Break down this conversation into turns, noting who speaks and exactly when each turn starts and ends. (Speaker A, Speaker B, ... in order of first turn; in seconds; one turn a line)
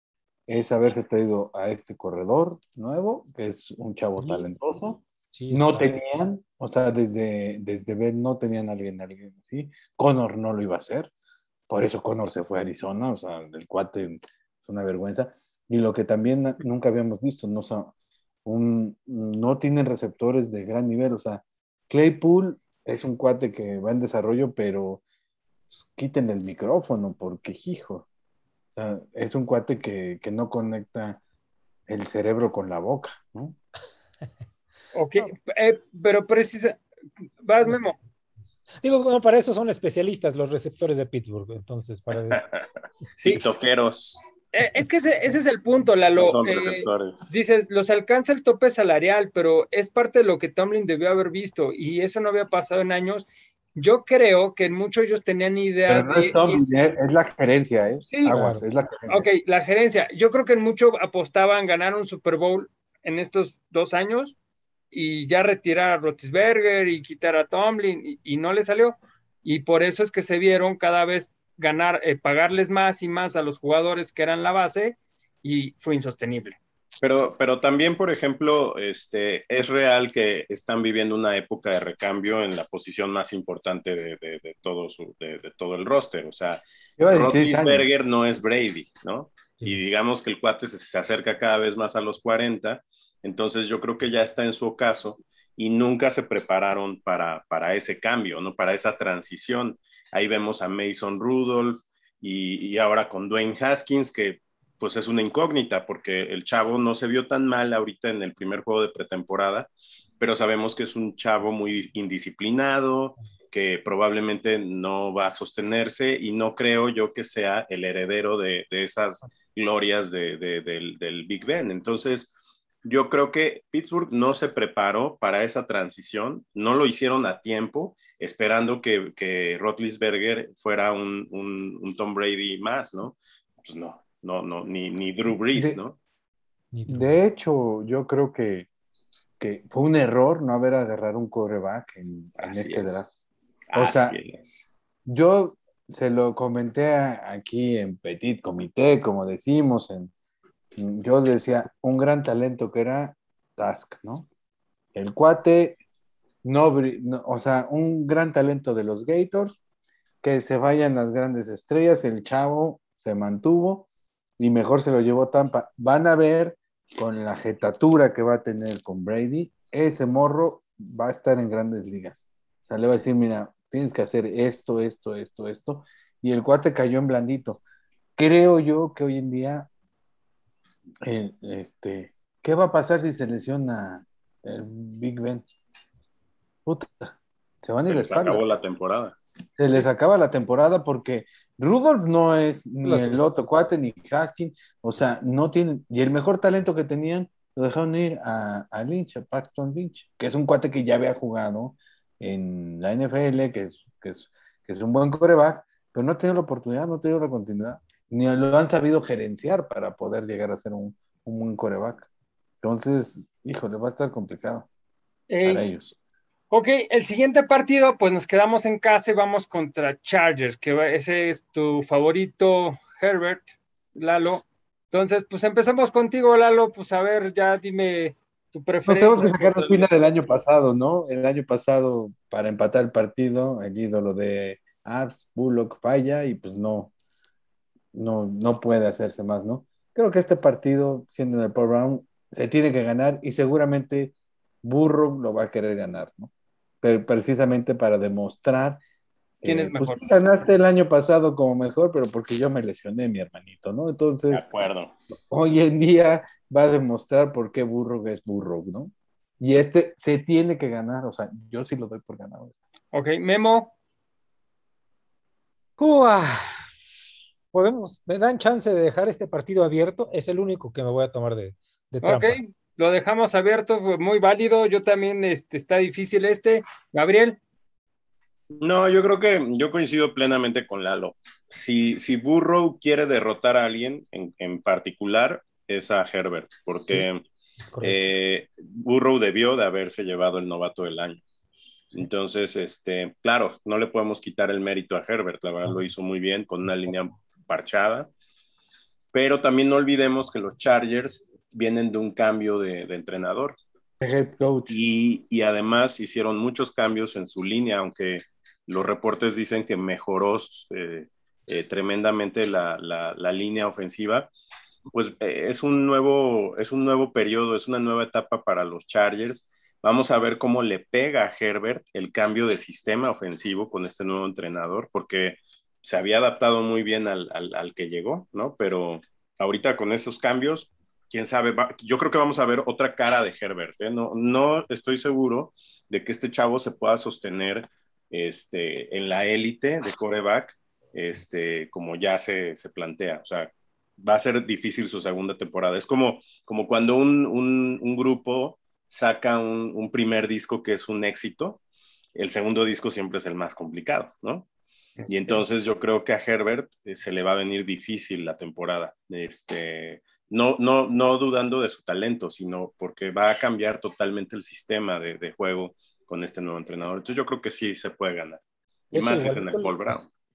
Speaker A: 0.5-11.1
Speaker B: 5.3-6.0
Speaker A: 11.7-17.9
Speaker A: 18.4-25.0
Speaker A: 25.7-28.1
Speaker A: 28.8-31.2
Speaker A: 31.9-33.5
Speaker C: 34.9-36.8
Speaker C: 37.4-38.0
Speaker B: 38.8-42.4
Speaker D: 42.3-42.6
Speaker D: 43.2-44.2
Speaker C: 44.5-56.7
Speaker D: 46.2-47.2
Speaker A: 55.9-59.3
Speaker C: 58.1-58.4
Speaker B: 58.2-58.6
Speaker C: 59.1-64.4
Speaker C: 64.9-76.6
Speaker D: 77.0-136.0
Speaker A: 87.0-87.9
Speaker B: 89.6-89.9
Speaker A: 135.5-135.8
Speaker B: 136.7-137.1
Speaker A: 136.9-138.7
Speaker A: 139.4-143.2
Speaker D: 142.4-143.0
Speaker D: 143.7-144.4
Speaker A: 143.8-144.2
Speaker A: 145.1-150.1
Speaker A: 150.8-154.3
Speaker A: 154.9-155.8
Speaker A: 156.4-159.6
Speaker A: 160.2-163.9
Speaker A: 164.4-177.6
Speaker A: 178.2-179.7
Speaker A: 181.0-185.4
Speaker A: 186.7-188.5
Speaker D: 187.9-189.2
Speaker A: 189.6-212.1
Speaker B: 192.8-193.2
Speaker A: 212.6-214.7
Speaker C: 215.3-215.7
Speaker A: 215.4-216.0
Speaker C: 216.5-230.0
Speaker A: 228.9-236.9
Speaker A: 237.9-246.3
Speaker A: 246.8-248.8
Speaker A: 249.4-254.6
Speaker C: 249.4-250.2
Speaker D: 254.3-254.9
Speaker A: 255.3-262.6
Speaker C: 262.9-263.7
Speaker B: 265.8-266.7
Speaker B: 267.5-272.4
Speaker C: 272.0-277.4
Speaker D: 278.6-287.2
Speaker B: 287.6-288.0
Speaker D: 287.8-291.2
Speaker D: 291.9-298.1
Speaker D: 299.1-303.6
Speaker A: 304.0-304.8
Speaker D: 304.7-314.3
Speaker D: 314.9-351.6
Speaker D: 352.1-354.5
Speaker D: 355.1-368.4
Speaker B: 368.9-370.0
Speaker D: 368.9-370.1